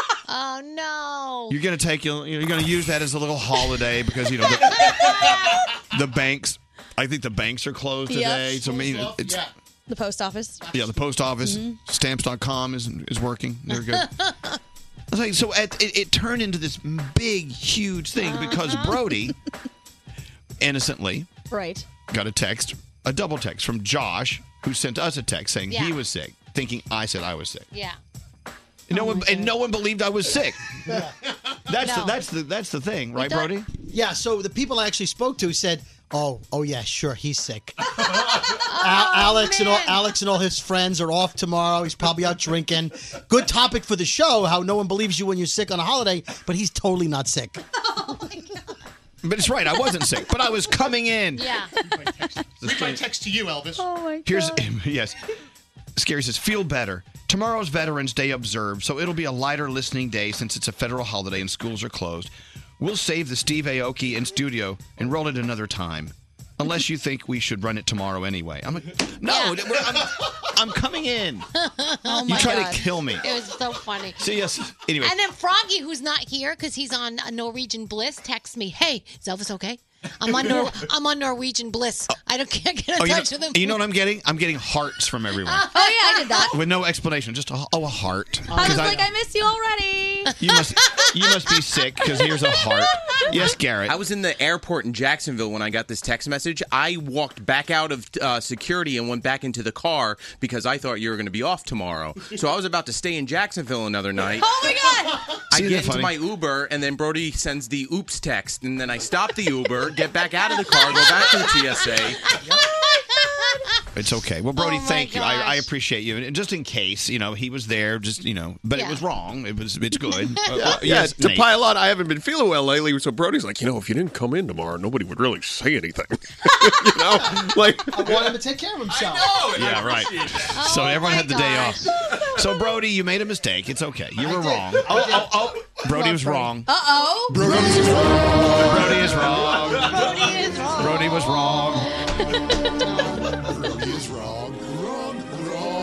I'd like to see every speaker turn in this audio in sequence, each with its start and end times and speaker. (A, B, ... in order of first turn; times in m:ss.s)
0:00.3-0:01.6 A
0:01.5-0:05.1 B
0:04.8-0:05.2 A
0:05.1-0:05.4 C
0:05.9-0:09.4 B
0:08.1-0:08.6 D
0:08.6-0:09.5 C
0:09.9-0:10.6 D
0:10.7-0:14.1 B
0:11.4-0:11.8 D
0:13.7-0:14.6 A
0:15.1-0:19.4 B
0:18.2-0:19.0 A
0:20.6-0:21.3 B
0:21.5-0:21.9 D
0:22.1-0:27.7 B
0:25.7-0:26.0 A
0:27.7-0:28.0 A
0:28.9-0:30.8 B
0:28.9-0:29.5 D
0:31.7-0:33.7 B
0:31.8-0:32.2 A
0:33.2-0:33.5 A
0:33.9-0:47.6 E
0:38.1-0:40.2 A
0:48.0-0:48.6 D
0:49.2-0:51.5 B
0:51.4-0:51.7 A
0:52.0-0:53.9 C
0:52.6-0:53.0 B
0:53.8-0:54.6 D
0:54.2-0:55.2 B
0:56.0-1:11.5 B
1:09.2-1:09.8 A
1:11.5-1:14.3 A
1:12.0-1:12.9 D
1:12.3-1:13.2 B
1:14.2-1:15.1 B
1:15.0-1:23.8 A
1:23.0-1:25.7 B
1:25.4-1:26.6 A
1:25.7-1:26.6 D
1:26.5-1:29.0 B
1:28.5-1:30.3 D
1:30.3-1:31.0 A
1:30.4-1:34.0 B
1:33.9-1:44.6 F
1:44.4-1:45.3 D
1:45.5-1:46.2 B
1:45.5-1:52.3 F
1:50.6-1:53.8 A
1:53.9-2:01.5 B
1:54.6-1:55.7 A
1:58.7-1:59.0 A
2:00.1-2:00.7 A
2:00.5-2:08.4 G
2:07.9-2:09.4 E
2:09.4-2:10.0 G
2:09.5-2:16.7 B
2:10.5-2:12.0 A
2:14.9-2:15.2 C
2:16.7-2:17.4 D
2:17.3-2:20.1 B
2:19.6-2:21.5 A
2:20.8-2:21.9 B
2:22.2-2:23.2 A
2:23.7-2:24.5 C